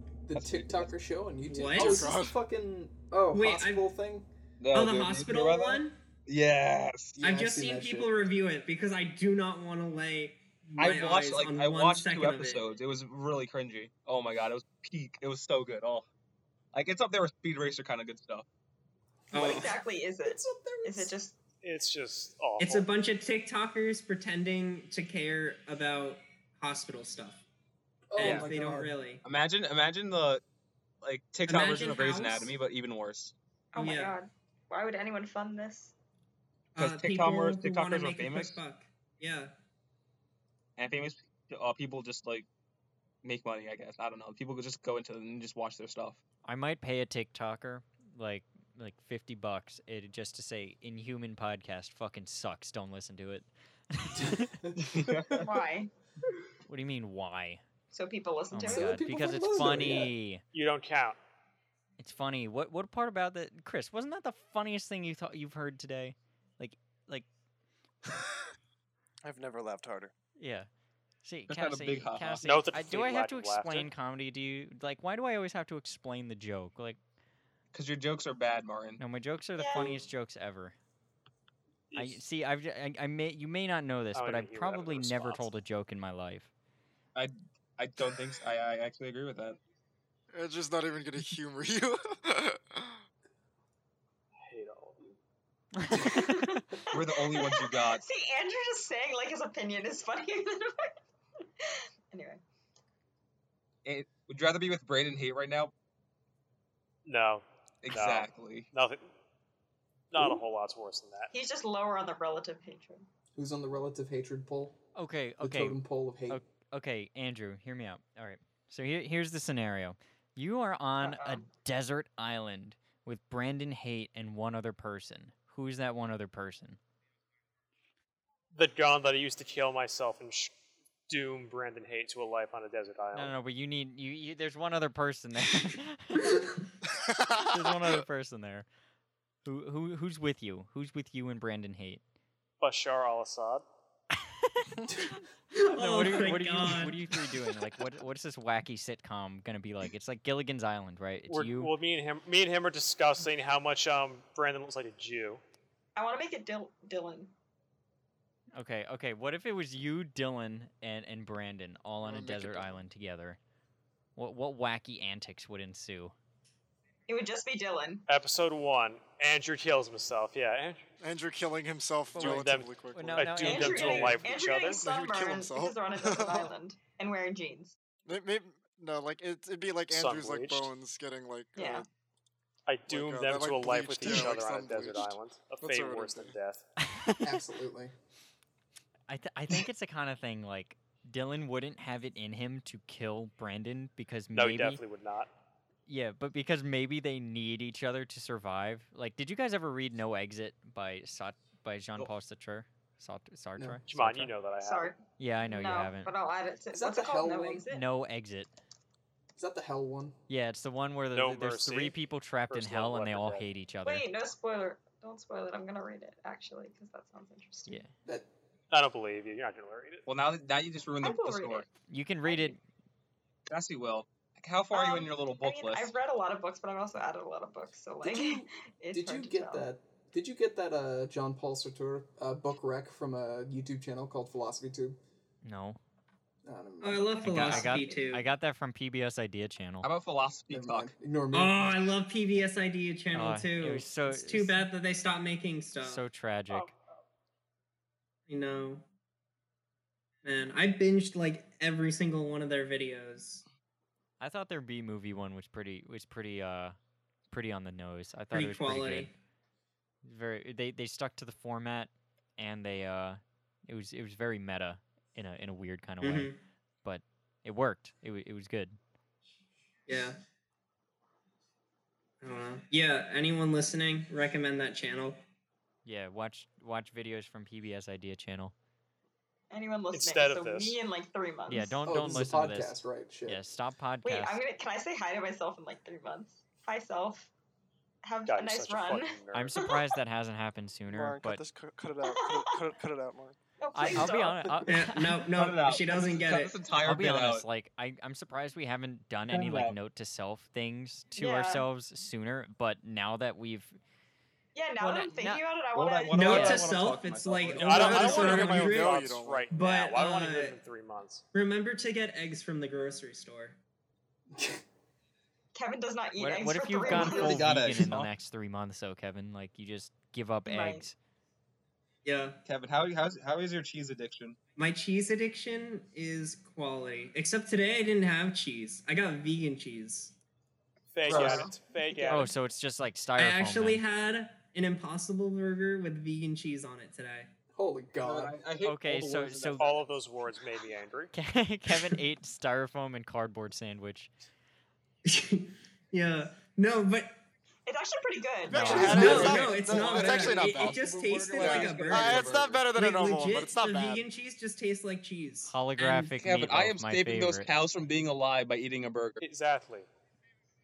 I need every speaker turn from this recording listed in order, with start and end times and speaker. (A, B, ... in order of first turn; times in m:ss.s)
0:00.3-0:04.3 A
0:00.3-0:00.9 B
0:01.4-0:02.0 C
0:01.8-0:02.4 D
0:03.3-0:03.9 C
0:04.6-0:07.2 B
0:04.7-0:06.0 C
0:07.2-0:08.1 A
0:07.2-0:12.6 C
0:10.8-0:16.1 B
0:16.7-0:18.4 B
0:19.3-0:21.1 A
0:19.3-0:21.4 E
0:21.6-0:22.9 F
0:22.6-0:27.4 C
0:28.1-0:28.9 A
0:28.2-0:29.2 C
0:29.2-0:30.4 B
0:31.0-0:33.3 B
0:31.4-0:32.5 C
0:33.7-0:35.9 E
0:33.8-0:34.2 C
0:36.8-0:38.6 B
0:36.8-0:39.5 C
0:40.8-0:42.5 B
0:43.2-0:46.2 B
0:46.4-0:54.6 G
0:54.8-0:55.7 B
0:55.5-0:55.9 E
0:56.6-0:57.6 G
0:57.9-0:58.9 E
0:58.5-1:00.4 G
0:58.6-1:00.1 A
1:00.5-1:01.2 F
1:02.0-1:07.3 G
1:09.2-1:10.1 D
1:10.4-1:10.7 G
1:11.2-1:17.0 G
1:11.5-1:12.4 B
1:12.4-1:13.9 F
1:17.7-1:19.0 B
1:19.0-1:20.7 G
1:19.6-1:20.0 E
1:21.9-1:22.2 F
1:21.9-1:26.5 G
1:24.1-1:25.5 F
1:27.1-1:29.6 B
1:30.3-1:32.9 D
1:34.4-1:35.2 F
1:35.8-1:36.6 G
1:36.2-1:41.0 E
1:36.9-1:38.1 B
1:41.6-1:42.4 E
1:43.8-1:45.7 B
1:47.0-1:49.0 F
1:47.8-1:48.7 B
1:50.1-1:51.3 F
1:50.2-1:50.4 A
1:51.3-1:53.0 E
1:53.4-1:54.8 A
1:54.9-2:06.8 G
1:55.4-1:56.4 A
2:01.0-2:01.5 E
2:08.5-2:10.5 F
2:11.1-2:13.4 F
2:13.1-2:16.3 G
2:17.4-2:18.7 G
2:19.4-2:22.0 G
2:22.6-2:23.6 F
2:25.5-2:27.0 C
2:25.7-2:31.7 G
2:31.3-2:35.4 F
2:36.0-2:37.3 E
2:38.5-2:43.4 G
2:42.0-2:42.8 D
2:44.2-2:46.1 G
2:47.1-2:48.0 E
2:48.1-2:50.8 F
2:51.0-2:56.5 D
2:52.1-2:54.9 F
2:52.1-2:54.3 G
2:53.4-2:57.7 E
2:58.0-3:01.9 D
2:59.9-3:00.7 F
3:01.6-3:01.8 E
3:02.7-3:06.6 F
3:02.9-3:06.3 D
3:06.8-3:07.3 G
3:07.2-3:07.9 A
3:09.1-3:14.8 G
3:14.3-3:15.3 F
3:15.9-3:24.3 G
3:23.9-3:24.9 F
3:24.6-3:27.8 E
3:25.2-3:26.1 G
3:26.7-3:27.7 A
3:27.7-3:28.5 G
3:29.4-3:30.1 A
3:30.3-3:34.0 G
3:31.1-3:32.0 F
3:32.5-3:33.5 F
3:33.8-3:37.7 E
3:38.7-3:40.1 F
3:40.1-3:41.7 B
3:41.0-3:41.6 E
3:41.9-3:42.6 G
3:42.3-3:42.5 E
3:43.5-3:46.0 B
3:44.7-3:49.7 E
3:48.0-3:55.0 A
3:55.4-3:55.8 G
3:56.4-3:57.2 A
3:56.8-3:58.2 C
3:57.2-3:59.9 G
3:59.8-4:00.9 B
4:00.5-4:01.9 A
4:01.3-4:06.0 C
4:03.1-4:04.5 G
4:05.8-4:06.7 G
4:08.3-4:08.8 C
4:10.2-4:13.4 C
4:14.2-4:16.8 G
4:17.3-4:19.1 G
4:18.3-4:19.1 C
4:20.0-4:26.3 G
4:26.0-4:26.4 C
4:26.8-4:28.8 G
4:29.9-4:30.2 C
4:32.2-4:35.2 C
4:35.8-4:38.5 G
4:39.5-4:41.8 E
4:39.9-4:40.8 F
4:41.5-4:44.4 G
4:41.8-4:43.4 A
4:44.0-4:47.3 E
4:48.0-4:49.2 E
4:48.2-4:49.6 F
4:49.3-4:51.4 G
4:50.9-4:53.4 D
4:52.0-4:52.7 E
4:53.6-4:55.1 E
4:53.7-4:55.0 G
4:54.7-4:56.6 C
4:55.3-4:57.4 B
4:56.8-5:03.8 G
4:59.3-4:59.8 B
5:01.2-5:01.6 E
5:04.5-5:06.2 E
5:04.8-5:08.0 B
5:04.9-5:05.4 G
5:06.1-5:10.6 C
5:06.3-5:06.6 G
5:07.6-5:11.2 F
5:07.8-5:09.5 D
5:11.3-5:13.6 C
5:15.5-5:17.3 E
5:16.2-5:20.9 G
5:16.9-5:18.1 B
5:20.4-5:20.9 E
5:22.0-5:22.4 C
5:22.4-5:24.4 B
5:24.6-5:30.1 C
5:30.9-5:32.3 F
5:31.0-5:31.6 A
5:31.2-5:31.5 B
5:32.0-5:33.8 G
5:33.2-5:37.3 C
5:37.5-5:38.3 A
5:38.0-5:39.8 B
5:38.6-5:39.7 G
5:39.6-5:41.1 F
5:41.1-5:44.1 G
5:45.0-5:47.1 C
5:47.6-5:48.9 E
5:48.4-5:50.8 D
5:48.5-5:49.3 G
5:48.5-5:49.7 F
5:48.9-5:56.1 C
5:49.0-5:52.6 B
5:51.3-5:54.1 D
5:55.5-5:57.5 G
5:56.1-5:59.2 B
5:59.2-5:59.9 F